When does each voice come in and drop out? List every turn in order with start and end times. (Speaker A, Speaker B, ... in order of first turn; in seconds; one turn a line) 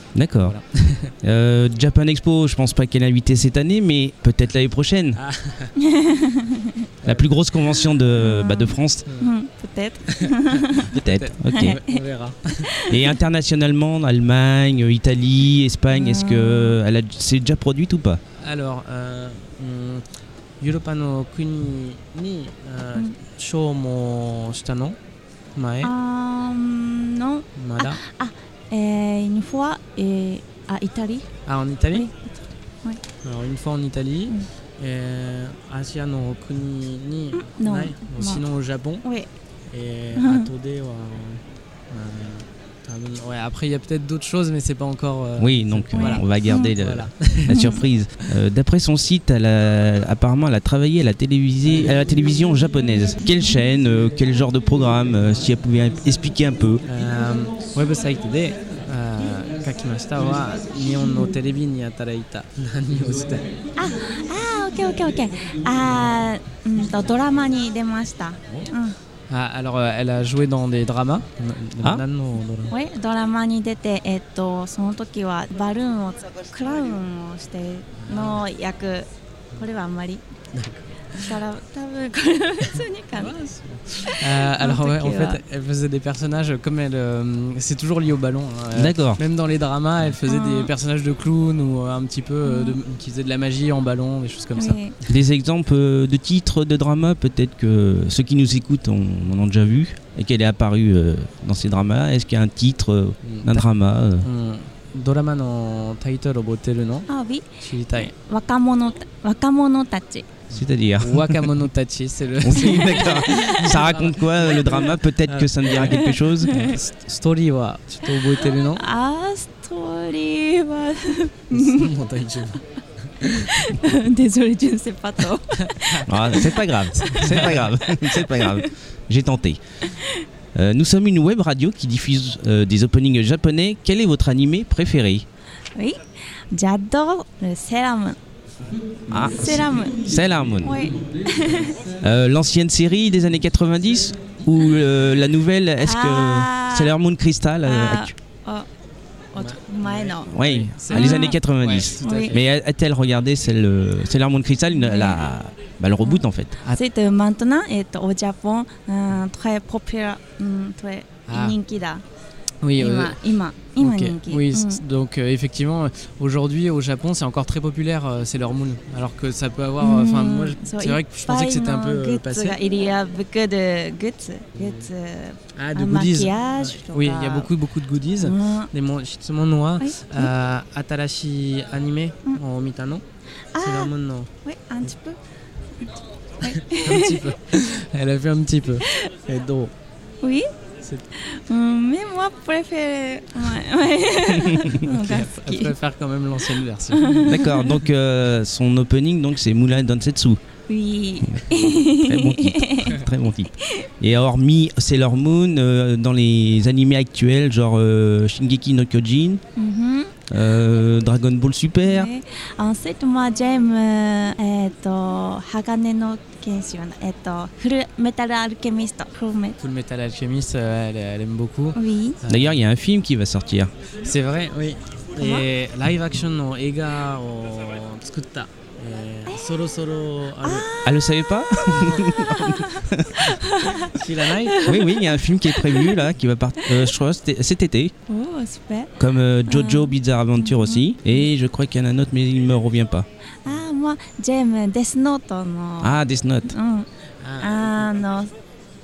Speaker A: 0.1-0.6
Speaker B: 0.4-1.1
Speaker A: 1.2-5.2
Speaker B: 5.2-5.7
Speaker C: 5.8-6.8
Speaker B: 7.0-7.8
Speaker A: 7.0-9.1
Speaker C: 8.2-10.9
Speaker B: 10.1-10.3
Speaker A: 10.8-11.8
Speaker B: 10.9-12.7
Speaker C: 11.5-12.0
Speaker C: 12.6-13.1
Speaker A: 12.8-18.2
Speaker C: 15.9-16.8
Speaker B: 18.4-20.0
Speaker B: 20.6-25.0
Speaker B: 25.6-25.9
Speaker C: 25.8-31.3
Speaker B: 27.6-28.0
Speaker B: 31.4-32.0
Speaker C: 31.9-33.0
Speaker B: 33.2-39.0
Speaker C: 37.4-38.4
Speaker C: 39.0-39.3
Speaker B: 39.7-47.7
Speaker C: 40.1-40.5
Speaker A: 45.4-56.8
Speaker C: 45.9-46.7
Speaker C: 47.5-47.8
Speaker B: 51.7-51.9
Speaker B: 56.9-63.5
Speaker C: 63.8-69.0
Speaker B: 69.3-72.7
Speaker C: 72.7-79.0
Speaker B: 78.0-78.4
Speaker C: 79.6-80.2
Speaker B: 80.5-81.4
Speaker C: 81.2-83.3
Speaker B: 82.7-95.2
Speaker C: 84.2-85.4
Speaker A: 88.7-89.2
Speaker C: 90.3-90.7
Speaker C: 92.4-92.8
Speaker C: 94.5-94.9
Speaker A: 95.1-104.3
Speaker B: 103.2-103.7
Speaker B: 104.2-107.1
Speaker C: 107.1-110.3
Speaker B: 107.6-108.1
Speaker A: 110.5-111.5
Speaker B: 110.5-118.8
Speaker A: 112.4-116.6
Speaker C: 115.9-116.7
Speaker C: 118.4-121.9
Speaker B: 121.5-122.6
Speaker C: 123.2-127.3
Speaker B: 123.2-123.7
Speaker B: 125.5-127.8
Speaker A: 126.1-129.6
Speaker C: 127.9-128.7
Speaker C: 129.8-130.2
Speaker A: 130.5-135.2
Speaker C: 136.5-138.2
Speaker A: 139.1-140.8
Speaker C: 139.1-140.0
Speaker B: 139.5-139.8
Speaker C: 140.6-141.8
Speaker A: 142.0-148.1
Speaker C: 145.8-146.9
Speaker C: 147.6-148.7
Speaker C: 149.3-150.3
Speaker B: 149.3-152.4
Speaker A: 150.3-156.6
Speaker C: 150.9-151.4
Speaker C: 152.0-152.3
Speaker C: 154.7-155.2
Speaker C: 156.0-162.0
Speaker B: 161.3-161.6
Speaker B: 162.6-163.2
Speaker C: 162.8-164.8
Speaker B: 163.8-172.6
Speaker C: 169.8-177.5
Speaker B: 174.6-174.9
Speaker B: 175.6-183.0
Speaker C: 178.2-178.7
Speaker C: 179.8-180.3
Speaker C: 183.5-183.9
Speaker B: 183.6-184.3
Speaker C: 184.4-185.2
Speaker C: 186.4-187.2
Speaker B: 186.4-189.7
Speaker C: 191.1-195.7
Speaker B: 194.8-197.3
Speaker C: 196.9-197.7
Speaker A: 197.2-200.4
Speaker C: 200.7-203.0
Speaker A: 201.3-209.4
Speaker C: 203.6-203.9
Speaker C: 209.6-210.1
Speaker A: 210.3-212.1
Speaker C: 211.8-219.6
Speaker B: 219.6-222.6
Speaker C: 221.7-222.2
Speaker A: 222.3-223.7
Speaker B: 224.0-230.7
Speaker C: 225.2-225.4
Speaker C: 230.4-231.1
Speaker A: 230.8-233.3
Speaker B: 231.7-232.1
Speaker C: 232.0-236.1
Speaker B: 233.8-234.6
Speaker A: 234.6-237.9
Speaker C: 236.6-236.9
Speaker C: 238.1-238.9
Speaker A: 239.0-243.1
Speaker C: 239.5-241.2
Speaker C: 243.4-246.8
Speaker A: 245.8-246.5
Speaker B: 247.2-247.9
Speaker C: 247.4-248.3